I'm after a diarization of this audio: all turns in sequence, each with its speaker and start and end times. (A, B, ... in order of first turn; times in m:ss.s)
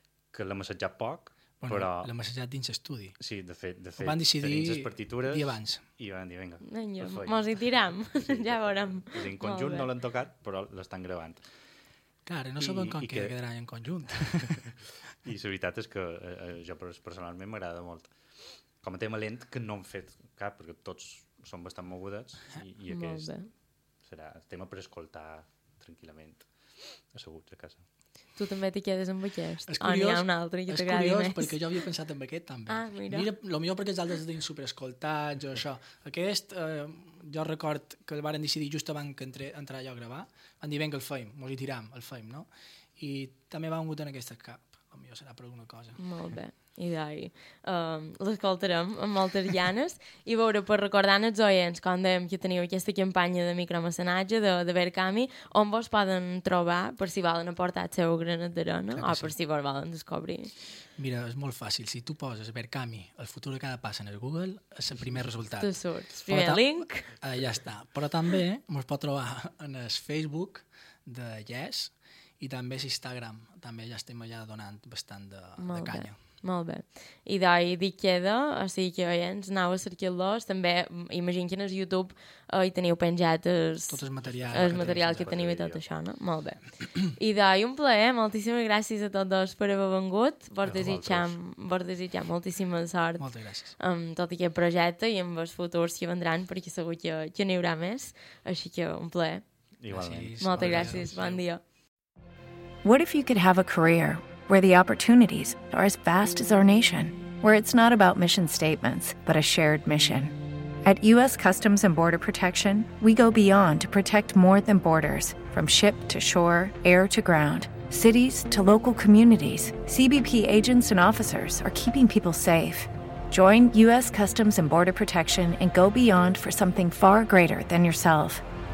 0:00.3-0:02.1 A
0:01.6-0:03.1 B
0:03.2-0:11.4 A
0:04.0-0:05.8 B
0:06.6-0:09.9 C
0:12.2-0:14.6 B
0:12.6-0:13.4 A
0:14.6-0:23.4 A
0:22.9-0:23.5 C
0:24.0-0:27.8 A
0:28.4-0:31.6 C
0:29.7-0:46.0 B
0:32.7-0:33.3 C
0:46.0-1:00.5 C
0:58.9-0:59.3 B
1:01.0-1:16.2 B
1:05.6-1:07.1 C
1:15.6-1:39.4 C
1:23.9-1:25.4 B
1:24.2-1:25.8 A
1:30.6-1:31.4 A
1:33.2-1:33.7 B
1:39.8-1:41.4 A
1:39.9-1:41.4 B
1:40.4-1:41.6 C
1:42.8-2:08.4 D